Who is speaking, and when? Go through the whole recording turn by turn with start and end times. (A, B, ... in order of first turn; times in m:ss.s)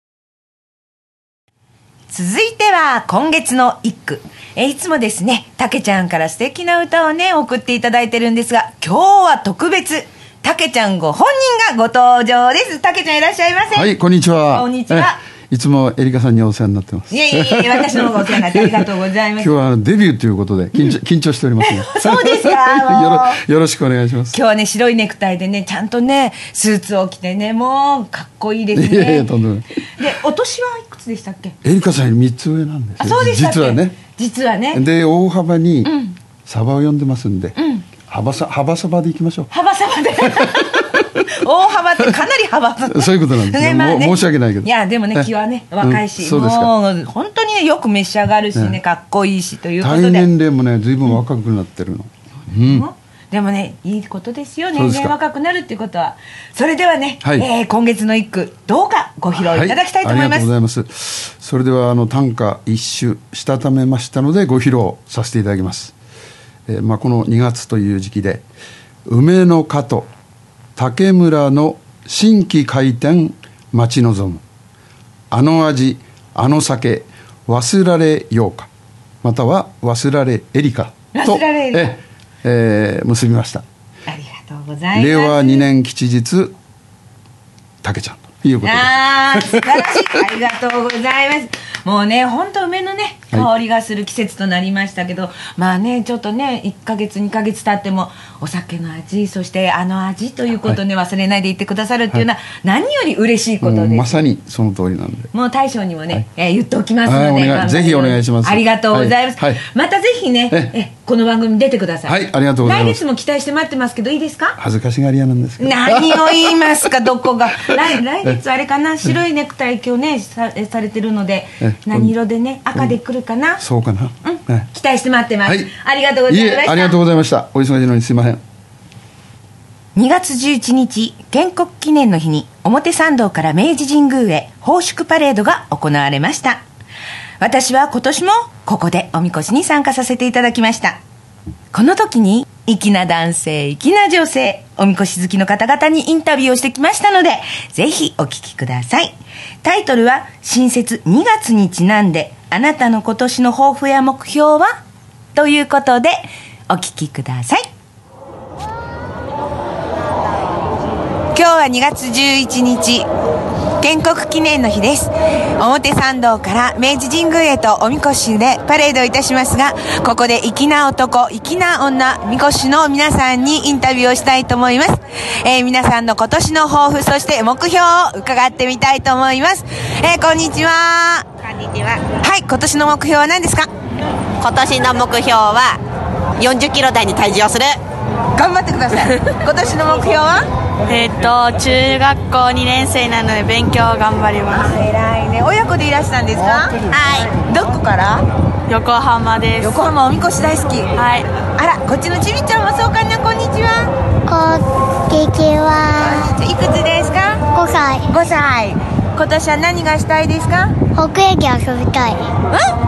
0:02.1-0:13.9 A
0:13.7-0:18.9 B
0:14.5-0:15.2 A
0:17.1-0:19.5 A
0:19.4-0:24.4 B
0:21.6-0:23.4 A
0:24.3-0:29.3 A
0:28.7-0:29.6 B
0:30.0-0:31.6 A
0:31.6-0:34.0 B
0:33.0-0:34.8 A
0:34.7-0:37.6 B
0:35.8-0:36.1 A
0:37.6-0:37.8 A
0:38.1-0:39.5 B
0:39.5-0:50.3 A
0:40.2-0:41.2 B
0:42.9-0:46.7 B
0:49.8-0:52.9 B
0:52.7-1:00.5 A
0:54.7-0:55.1 B
0:59.4-1:05.9 B
1:06.7-1:08.4 B
1:09.0-1:10.1 B
1:10.8-1:14.4 B
1:15.3-1:18.7 B
1:19.2-1:23.6 B
1:21.1-1:21.9 A
1:24.1-1:25.7 A
1:24.9-1:26.5 B
1:27.8-1:30.0 B
1:28.6-1:44.1 A
1:43.6-1:45.3 B
1:45.3-1:54.6 A
1:47.0-1:49.6 B
1:52.0-1:53.0 B
1:54.6-1:56.7 B
1:55.6-2:03.6 A
2:01.6-2:02.1 B
2:03.6-2:04.7 B
2:04.2-2:07.0 A
2:05.4-2:05.7 B
2:06.3-2:08.4 B
2:10.0-2:16.6 A
2:17.4-2:21.0 A
2:21.7-2:34.7 A
2:35.3-2:37.6 A
2:41.3-2:43.1 A
2:43.8-3:01.3 A
3:02.0-3:03.7 A
3:04.4-3:05.8 C
3:06.4-3:07.8 C
3:08.4-3:10.4 A
3:10.9-3:14.7 D
3:14.5-3:16.8 A
3:16.9-3:17.3 C
3:17.4-3:18.2 A
3:18.7-3:19.8 D
3:19.6-3:20.9 A
3:21.0-3:21.3 D
3:21.5-3:23.9 A
3:24.3-3:26.3 E
3:26.0-3:27.4 A
3:27.5-3:28.0 E
3:28.1-3:30.7 A
3:30.9-3:32.3 E